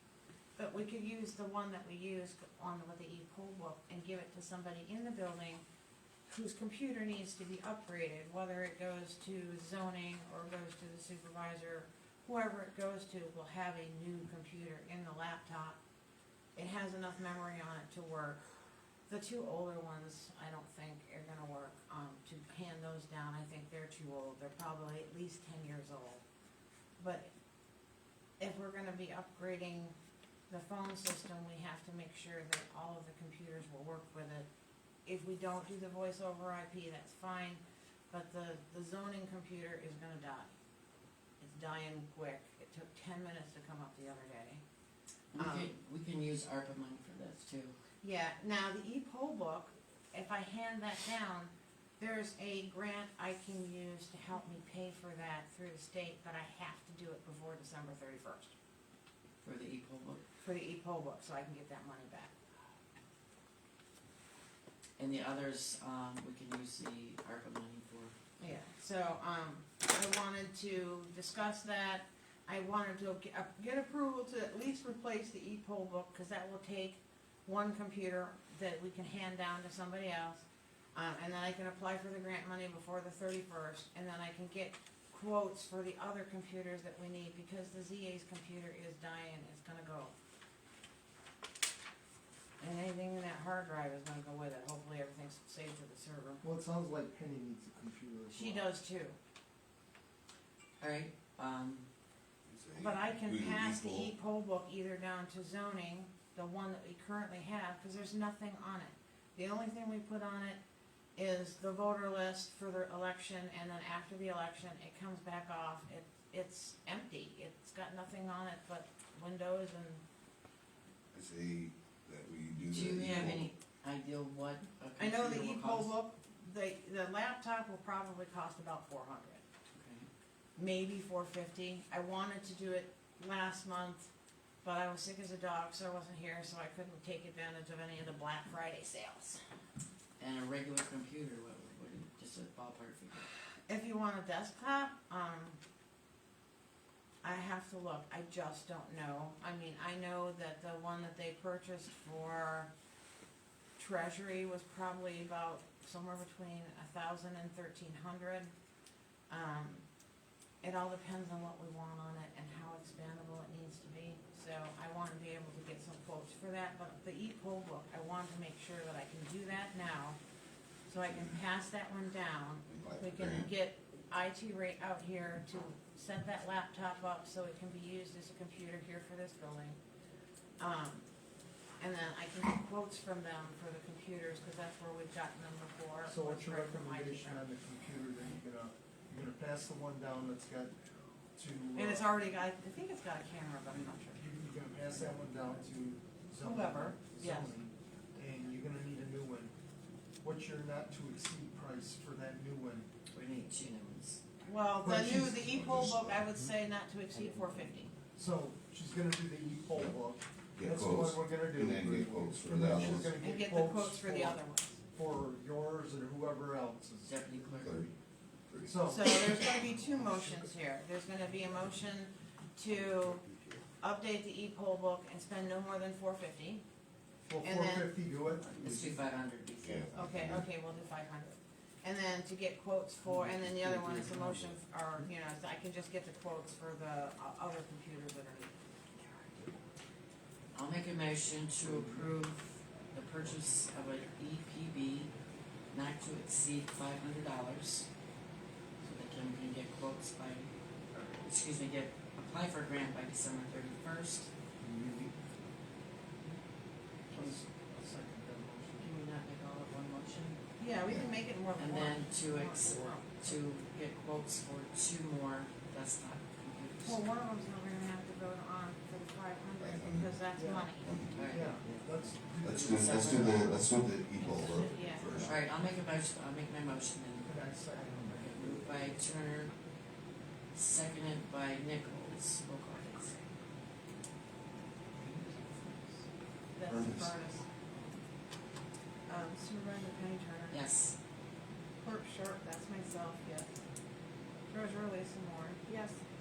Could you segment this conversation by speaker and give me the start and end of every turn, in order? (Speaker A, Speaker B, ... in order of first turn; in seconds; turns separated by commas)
Speaker A: 0.6-5.6, Speaker A: 6.3-15.8, Speaker A: 16.6-18.4, Speaker A: 19.1-26.2, Speaker A: 27.0-27.3, Speaker A: 28.4-29.9, Speaker A: 30.5-34.5, Speaker A: 35.0-40.6, Speaker A: 41.4-44.6, Speaker B: 45.3-47.8, Speaker A: 45.4-45.7, Speaker A: 48.0-58.5, Speaker B: 59.4-60.2, Speaker A: 60.4-62.3, Speaker B: 65.0-68.2, Speaker A: 68.4-90.1, Speaker A: 92.6-96.4, Speaker C: 96.4-98.7, Speaker A: 98.3-99.2, Speaker B: 100.8-101.9, Speaker D: 102.5-104.1, Speaker A: 102.8-110.6, Speaker A: 111.2-120.0, Speaker D: 121.1-123.5, Speaker B: 122.7-125.9, Speaker A: 125.0-129.4, Speaker B: 129.7-130.1, Speaker A: 130.6-134.1, Speaker A: 134.6-139.4, Speaker B: 140.2-143.3, Speaker A: 143.7-145.6, Speaker A: 147.2-152.7, Speaker A: 153.8-158.5, Speaker A: 159.3-159.9, Speaker A: 160.6-170.2, Speaker A: 170.9-179.8, Speaker D: 171.0-171.4, Speaker D: 172.7-173.5, Speaker A: 180.6-181.1, Speaker A: 181.8-187.4, Speaker C: 186.1-190.8, Speaker C: 191.4-192.2, Speaker A: 191.8-194.2, Speaker C: 194.2-199.5, Speaker A: 196.4-197.5, Speaker C: 200.2-202.9, Speaker B: 203.1-204.2, Speaker A: 204.4-207.9, Speaker C: 204.8-205.7, Speaker D: 205.3-206.3, Speaker C: 208.2-217.4, Speaker D: 210.5-213.2, Speaker A: 213.2-214.8, Speaker B: 217.0-217.9, Speaker D: 217.6-217.9, Speaker D: 218.5-219.4, Speaker C: 218.7-220.5, Speaker A: 218.9-223.2, Speaker D: 222.7-223.6, Speaker A: 223.8-226.6, Speaker C: 227.2-229.0, Speaker A: 227.4-227.9, Speaker B: 228.6-230.3, Speaker D: 229.6-230.5, Speaker A: 229.9-238.6, Speaker D: 233.4-234.5, Speaker B: 240.5-245.1, Speaker C: 241.6-242.1, Speaker B: 245.7-247.9, Speaker B: 248.8-254.3, Speaker C: 254.6-255.2, Speaker C: 257.1-258.9, Speaker B: 258.8-260.4, Speaker A: 260.6-263.4, Speaker B: 261.6-267.0, Speaker A: 266.9-271.0, Speaker D: 269.6-270.2, Speaker C: 270.4-273.5, Speaker D: 270.8-271.4, Speaker B: 271.1-271.6, Speaker D: 272.4-275.4, Speaker B: 272.6-273.6, Speaker A: 274.2-275.1, Speaker B: 274.3-277.4, Speaker C: 277.2-279.0, Speaker B: 278.1-279.5, Speaker B: 280.5-283.2, Speaker B: 285.0-286.0, Speaker A: 286.5-287.7, Speaker D: 286.7-287.2, Speaker A: 289.1-290.6, Speaker B: 290.5-291.0, Speaker A: 291.8-293.6, Speaker A: 294.5-296.0